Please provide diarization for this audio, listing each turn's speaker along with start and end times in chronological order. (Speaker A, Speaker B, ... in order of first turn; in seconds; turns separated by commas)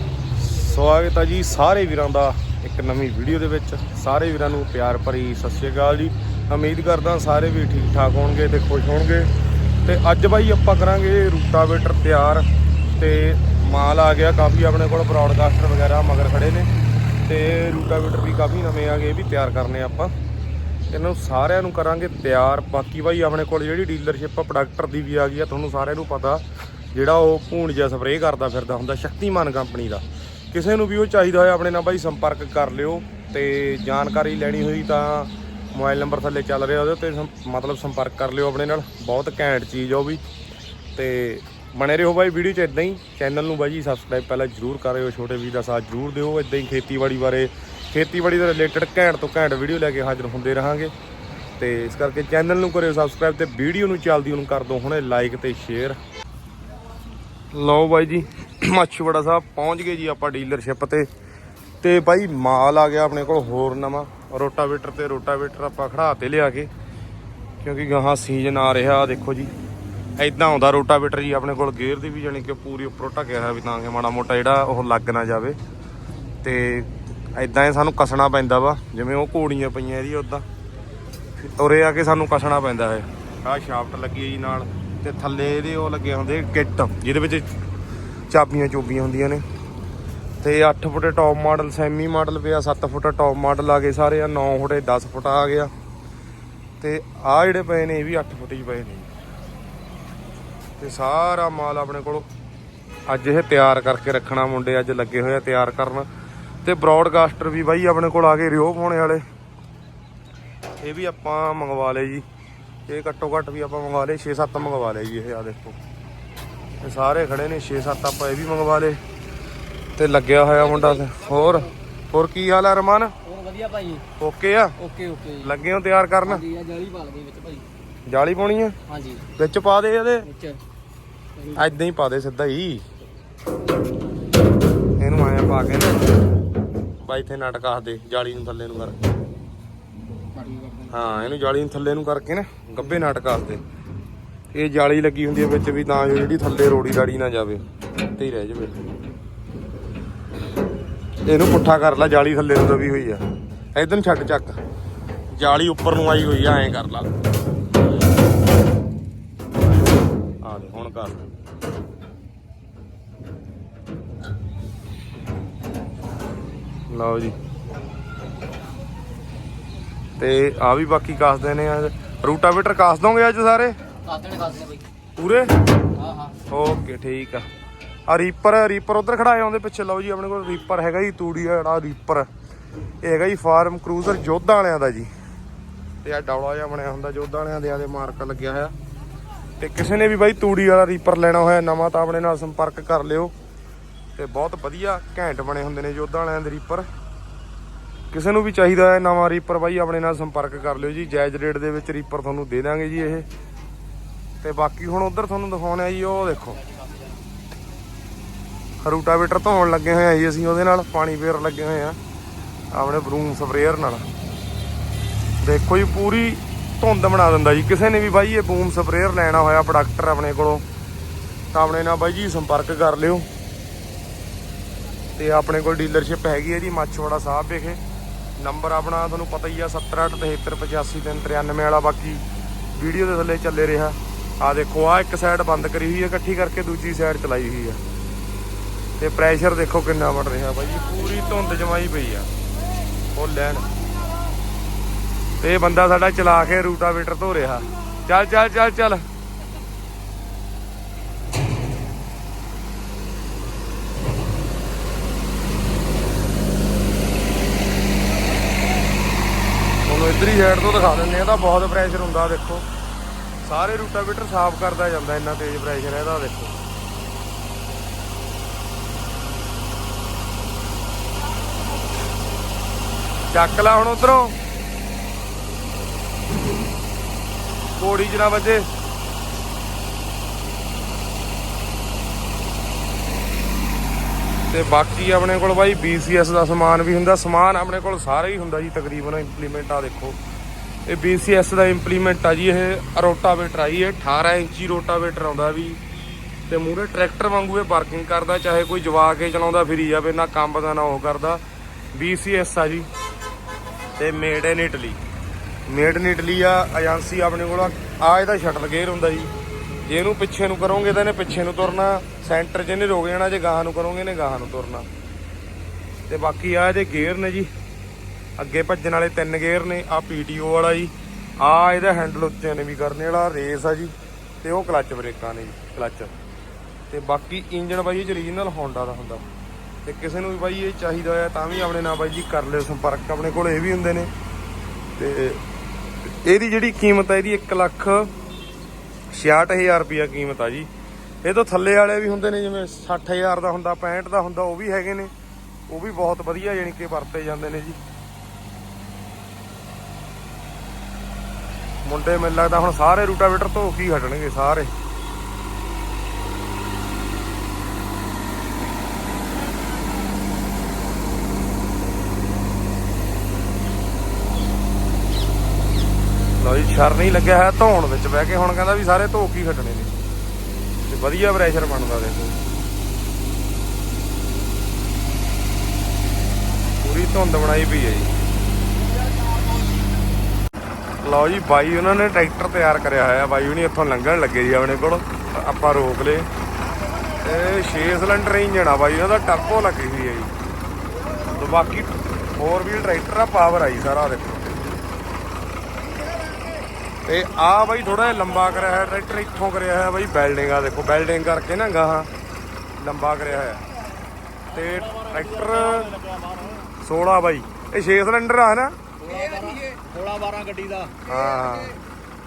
Speaker A: 0.4-9.3, Speaker A: 9.8-16.7, Speaker A: 17.3-20.1, Speaker A: 20.9-26.4, Speaker A: 26.9-40.2, Speaker A: 41.0-50.9, Speaker A: 51.6-56.0, Speaker A: 57.5-61.1, Speaker A: 61.8-66.7, Speaker A: 67.6-69.5, Speaker A: 70.2-75.6, Speaker A: 76.4-80.5, Speaker A: 81.4-87.5, Speaker A: 88.3-89.4, Speaker A: 90.4-95.7, Speaker A: 96.8-99.1, Speaker A: 100.8-102.3, Speaker A: 103.1-106.1, Speaker A: 106.6-109.2, Speaker A: 110.8-112.2, Speaker A: 112.9-115.8, Speaker A: 116.8-119.0, Speaker A: 120.0-123.1, Speaker B: 120.8-121.7, Speaker B: 123.2-124.0, Speaker A: 124.2-124.8, Speaker B: 124.8-125.5, Speaker A: 125.4-126.4, Speaker B: 126.2-127.7, Speaker A: 128.1-128.8, Speaker B: 128.9-129.2, Speaker A: 129.3-130.3, Speaker B: 130.2-130.6, Speaker A: 131.5-132.8, Speaker A: 135.0-136.1, Speaker A: 137.0-139.0, Speaker B: 140.3-140.9, Speaker A: 140.9-143.6, Speaker A: 144.5-148.8, Speaker A: 151.3-153.2, Speaker A: 153.8-154.6, Speaker A: 155.3-157.1, Speaker A: 160.4-161.3, Speaker A: 166.9-167.3, Speaker A: 170.2-173.8, Speaker B: 174.1-174.8, Speaker A: 175.2-175.5, Speaker B: 175.9-176.4, Speaker A: 176.5-177.5, Speaker A: 178.1-182.3, Speaker A: 183.0-185.1, Speaker A: 186.0-188.7, Speaker A: 189.6-193.3, Speaker A: 194.2-196.9, Speaker A: 198.1-203.3, Speaker A: 204.4-206.6, Speaker A: 208.8-212.0, Speaker A: 212.7-214.1, Speaker A: 215.4-220.6, Speaker A: 221.5-223.3, Speaker A: 225.2-227.8, Speaker A: 228.4-237.8, Speaker A: 239.0-242.3, Speaker A: 243.1-243.7, Speaker A: 245.4-249.0, Speaker A: 259.9-262.7, Speaker A: 263.4-266.5, Speaker A: 273.3-274.4, Speaker A: 277.8-278.7, Speaker A: 284.5-290.2, Speaker A: 290.9-295.8, Speaker A: 296.5-301.4, Speaker A: 301.9-302.9, Speaker A: 304.0-305.0, Speaker A: 305.7-309.3, Speaker A: 309.9-314.9, Speaker A: 316.1-317.5, Speaker A: 318.4-326.1, Speaker A: 326.9-329.2, Speaker A: 329.9-334.1, Speaker A: 335.0-335.4, Speaker A: 336.1-338.1, Speaker A: 339.1-340.7, Speaker A: 341.2-345.1, Speaker A: 345.7-347.8, Speaker A: 351.9-354.7, Speaker A: 366.4-369.9, Speaker A: 370.8-372.4, Speaker A: 376.8-378.1, Speaker A: 381.0-386.3, Speaker A: 387.2-390.3, Speaker A: 391.3-394.5, Speaker A: 397.1-402.1, Speaker A: 402.8-403.6, Speaker A: 404.5-406.0, Speaker A: 406.8-408.8, Speaker B: 409.0-411.1, Speaker A: 411.1-411.8